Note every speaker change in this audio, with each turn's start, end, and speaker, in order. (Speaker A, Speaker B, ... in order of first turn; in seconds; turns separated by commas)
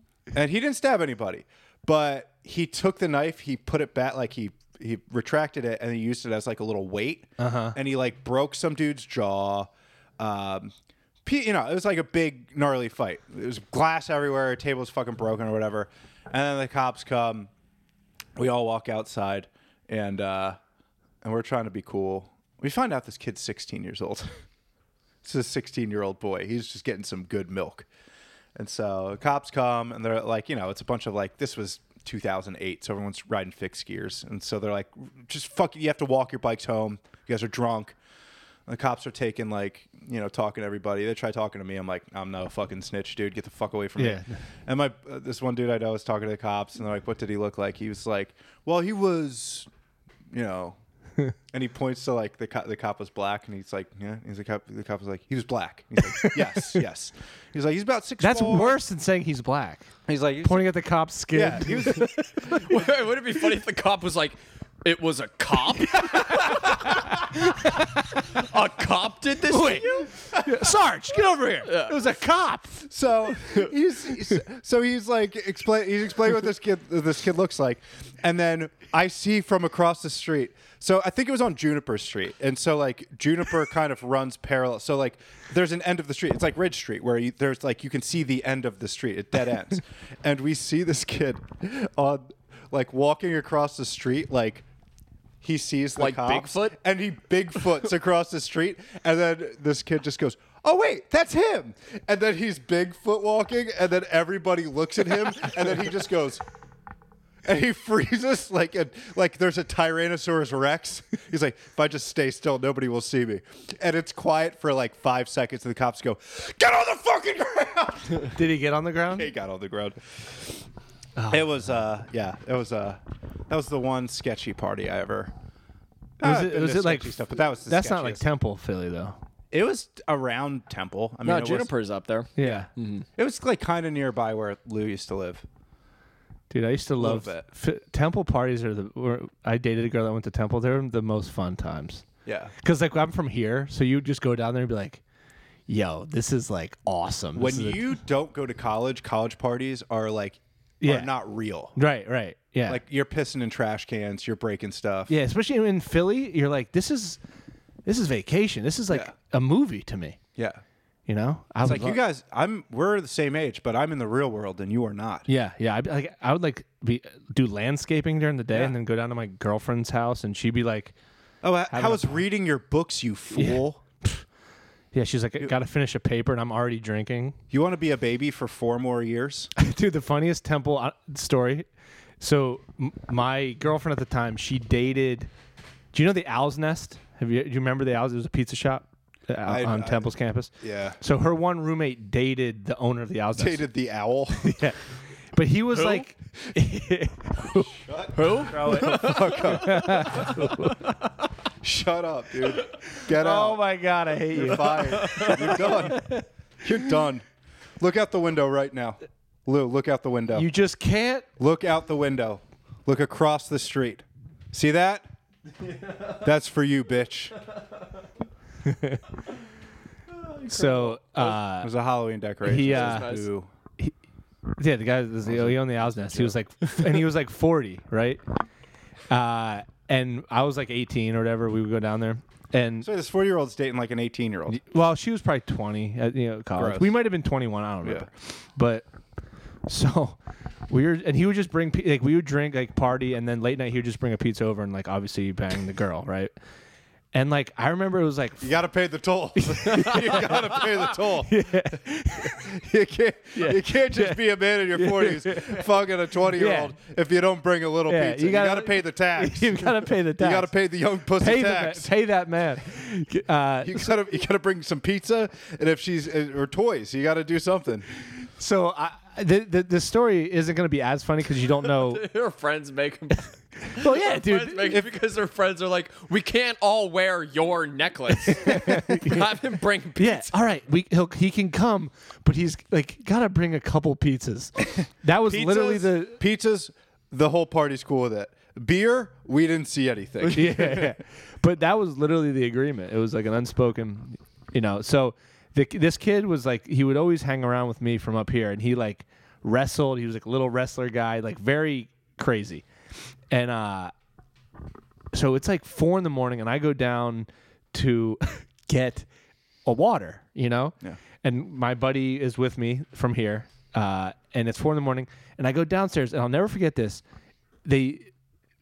Speaker A: 0.3-10.7, Speaker B: 7.4-7.8, Speaker A: 11.2-17.5, Speaker A: 18.4-20.6, Speaker A: 21.2-24.3, Speaker A: 25.2-27.9, Speaker A: 28.6-38.0, Speaker A: 38.7-49.7, Speaker B: 44.0-44.3, Speaker A: 50.3-50.8, Speaker A: 51.5-58.8, Speaker B: 56.0-56.8, Speaker B: 58.2-62.6, Speaker A: 60.1-60.8, Speaker A: 61.3-62.3, Speaker C: 62.5-67.6, Speaker B: 66.9-68.0, Speaker C: 68.3-70.1, Speaker B: 69.5-72.9, Speaker C: 71.7-72.1, Speaker A: 72.9-94.7, Speaker A: 95.4-106.4, Speaker C: 96.0-96.8, Speaker A: 107.5-118.4, Speaker B: 118.3-119.3, Speaker A: 119.1-120.6, Speaker B: 121.2-121.4, Speaker A: 121.3-125.3, Speaker A: 126.2-128.3, Speaker B: 126.2-129.2, Speaker A: 129.5-131.7, Speaker C: 131.2-133.1, Speaker B: 132.4-132.7, Speaker A: 132.4-132.7, Speaker A: 133.2-135.4, Speaker B: 136.5-142.1, Speaker A: 137.0-137.5, Speaker A: 142.3-142.5, Speaker B: 142.6-145.0, Speaker B: 145.7-147.8, Speaker A: 147.3-151.8, Speaker B: 150.8-151.1, Speaker B: 151.8-152.8, Speaker A: 152.7-155.1, Speaker B: 155.1-157.2, Speaker B: 157.8-160.2, Speaker A: 160.4-160.6, Speaker B: 161.1-162.0, Speaker A: 161.6-165.3, Speaker B: 165.3-170.9, Speaker A: 171.4-173.8, Speaker B: 171.7-172.2, Speaker B: 173.3-174.2, Speaker B: 174.9-177.4, Speaker A: 177.5-179.5, Speaker B: 179.6-181.7, Speaker B: 182.2-185.3, Speaker B: 185.9-193.6, Speaker A: 189.4-191.0, Speaker A: 193.3-194.6, Speaker B: 194.4-194.8, Speaker B: 195.3-197.7, Speaker C: 195.7-196.1, Speaker A: 197.6-200.4, Speaker C: 198.1-200.7, Speaker B: 199.4-200.9, Speaker A: 201.6-203.7, Speaker B: 202.9-206.2, Speaker A: 204.3-207.3, Speaker C: 204.7-205.7, Speaker A: 207.8-210.5, Speaker B: 210.3-211.3, Speaker A: 211.4-215.1, Speaker A: 216.1-217.4, Speaker B: 218.6-219.0, Speaker C: 220.2-220.9, Speaker B: 220.5-221.7, Speaker A: 221.2-223.5, Speaker B: 222.4-223.2, Speaker C: 222.5-223.3, Speaker B: 224.6-228.2, Speaker A: 225.2-226.4, Speaker B: 229.1-232.9, Speaker A: 232.8-234.6, Speaker B: 234.5-238.9, Speaker A: 236.6-237.0, Speaker B: 239.7-240.2, Speaker B: 240.7-246.3, Speaker B: 247.1-248.5, Speaker A: 248.4-261.9, Speaker B: 249.4-250.7, Speaker B: 251.2-252.5, Speaker B: 253.3-255.7, Speaker B: 256.3-256.7, Speaker B: 257.9-260.5, Speaker B: 261.2-263.9, Speaker A: 263.6-267.9, Speaker B: 268.4-272.1, Speaker C: 271.7-280.3, Speaker B: 273.7-274.8, Speaker B: 278.2-279.2, Speaker B: 280.0-286.2, Speaker A: 284.8-291.0, Speaker B: 290.2-302.6, Speaker B: 303.3-303.9, Speaker B: 305.1-309.1, Speaker B: 309.6-317.0, Speaker B: 317.6-318.1